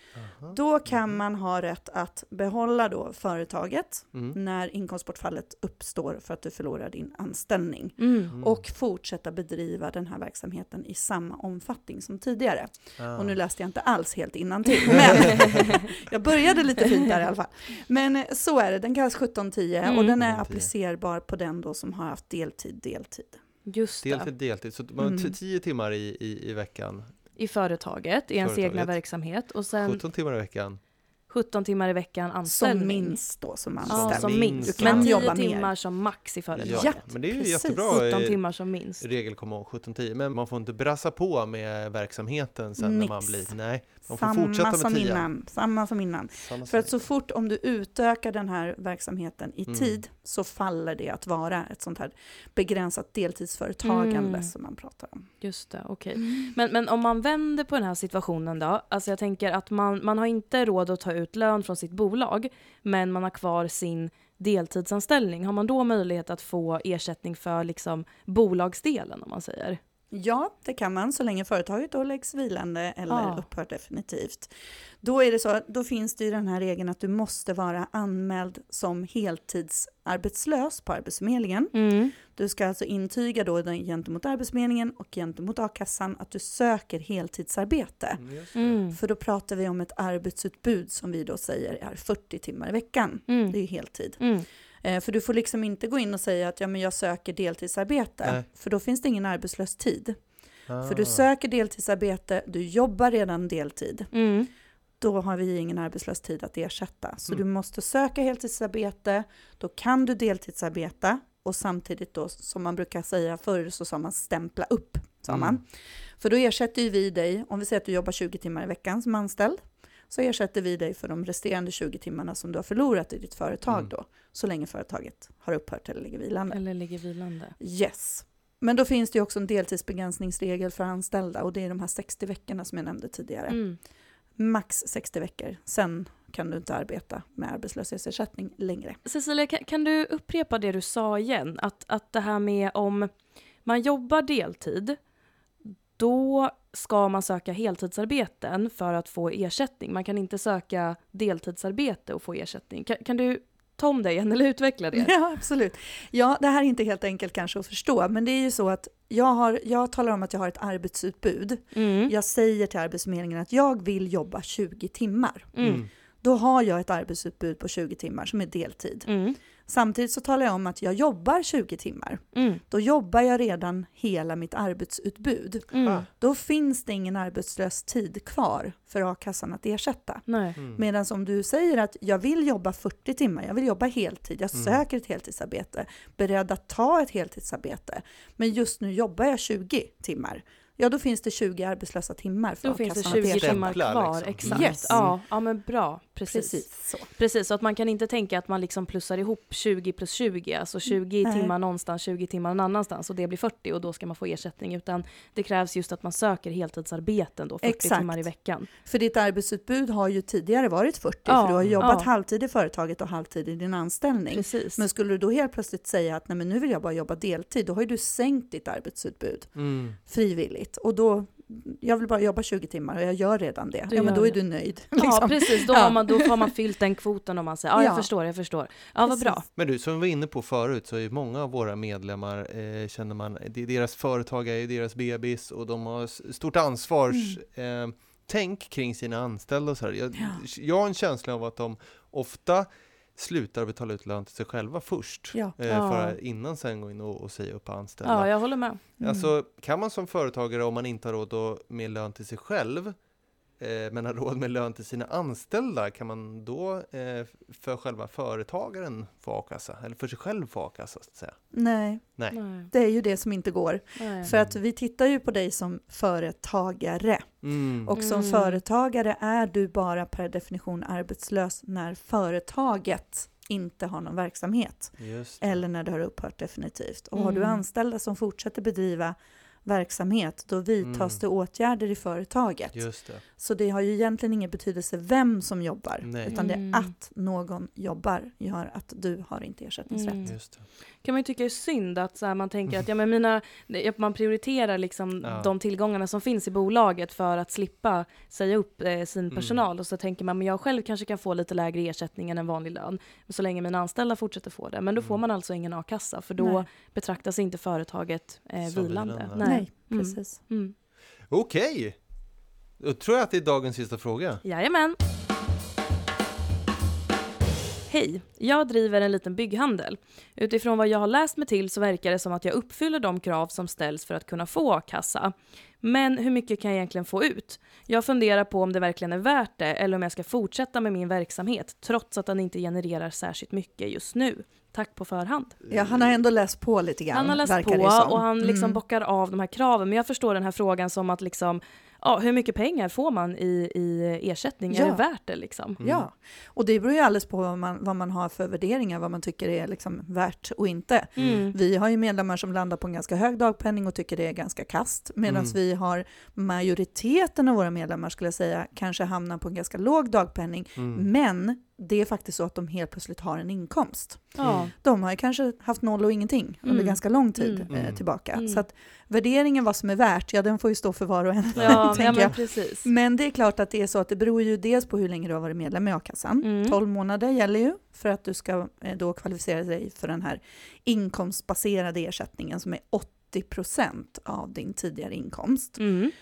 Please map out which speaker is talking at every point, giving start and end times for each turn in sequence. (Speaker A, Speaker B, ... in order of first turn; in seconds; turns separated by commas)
Speaker A: 0.1-1.2, Speaker B: 0.5-23.4, Speaker C: 8.0-8.3, Speaker A: 8.3-8.6, Speaker A: 13.0-13.4, Speaker C: 19.9-20.2, Speaker A: 20.2-20.7, Speaker C: 23.6-24.3, Speaker A: 24.0-27.1, Speaker B: 25.0-25.4, Speaker C: 27.4-30.0, Speaker A: 28.4-29.0, Speaker A: 29.8-30.8, Speaker C: 31.3-33.2, Speaker B: 32.5-35.8, Speaker A: 33.8-35.3, Speaker C: 33.9-39.0, Speaker A: 36.5-45.3, Speaker B: 36.7-38.0, Speaker B: 42.8-55.3, Speaker A: 46.4-47.0, Speaker A: 49.7-50.0, Speaker C: 53.8-54.5, Speaker C: 55.4-69.8, Speaker B: 70.1-74.5, Speaker C: 73.1-73.5, Speaker B: 75.0-88.2, Speaker C: 81.7-82.1, Speaker A: 88.2-88.8, Speaker C: 88.5-89.0, Speaker B: 88.9-100.2, Speaker C: 93.3-93.6, Speaker C: 94.2-94.5, Speaker A: 100.7-101.2, Speaker B: 100.8-104.1, Speaker C: 104.1-104.5, Speaker B: 105.0-126.6, Speaker A: 115.3-115.6, Speaker C: 126.5-127.6, Speaker B: 127.6-133.8, Speaker C: 133.5-133.8, Speaker B: 134.4-139.0, Speaker C: 139.1-143.1, Speaker C: 143.6-145.0, Speaker C: 145.9-155.1, Speaker B: 154.9-169.1, Speaker C: 161.7-162.1, Speaker C: 165.5-165.8, Speaker A: 165.6-165.9, Speaker C: 169.1-169.4, Speaker B: 169.7-193.8, Speaker C: 172.3-172.6, Speaker C: 175.7-176.1, Speaker A: 175.8-176.1, Speaker C: 180.3-180.6, Speaker A: 180.6-180.8, Speaker A: 184.6-184.8, Speaker C: 192.6-208.7, Speaker A: 193.1-195.2, Speaker B: 194.4-195.1, Speaker B: 196.3-197.1, Speaker B: 201.2-201.5, Speaker B: 207.6-226.5, Speaker C: 211.3-212.1, Speaker A: 211.6-211.9, Speaker C: 214.3-214.8, Speaker A: 219.6-220.0, Speaker C: 223.9-224.4, Speaker C: 224.9-229.4, Speaker B: 227.8-228.1, Speaker B: 229.1-229.4, Speaker A: 229.6-253.0, Speaker B: 237.1-237.4, Speaker C: 245.7-246.2, Speaker C: 248.0-248.8, Speaker B: 249.0-249.3, Speaker A: 253.6-261.5, Speaker B: 261.5-290.3, Speaker C: 262.3-262.7, Speaker C: 264.0-264.3, Speaker A: 264.3-264.6, Speaker A: 267.4-267.9, Speaker C: 267.9-268.6, Speaker A: 275.0-275.6, Speaker C: 277.2-277.6, Speaker A: 280.8-281.2, Speaker A: 282.7-283.2, Speaker A: 286.0-286.4, Speaker C: 286.3-286.9, Speaker C: 289.9-310.8, Speaker A: 290.2-290.7, Speaker A: 295.2-295.5, Speaker A: 299.3-299.6, Speaker B: 306.4-306.7, Speaker A: 308.6-309.5, Speaker B: 309.4-310.4, Speaker A: 311.3-312.1, Speaker A: 312.8-314.4, Speaker C: 314.4-315.0, Speaker C: 317.9-335.6, Speaker A: 335.6-336.2, Speaker B: 335.7-338.8, Speaker C: 337.1-345.8, Speaker B: 344.7-345.0, Speaker A: 345.8-346.1, Speaker B: 345.8-385.9, Speaker A: 351.2-351.4, Speaker C: 351.2-351.6, Speaker A: 355.3-355.6, Speaker A: 360.8-361.1, Speaker C: 364.4-364.7, Speaker A: 364.4-364.7, Speaker C: 366.6-367.7, Speaker A: 367.7-368.0, Speaker C: 368.3-368.6, Speaker A: 371.5-372.4, Speaker C: 371.6-372.9, Speaker C: 376.4-376.8, Speaker C: 385.8-386.1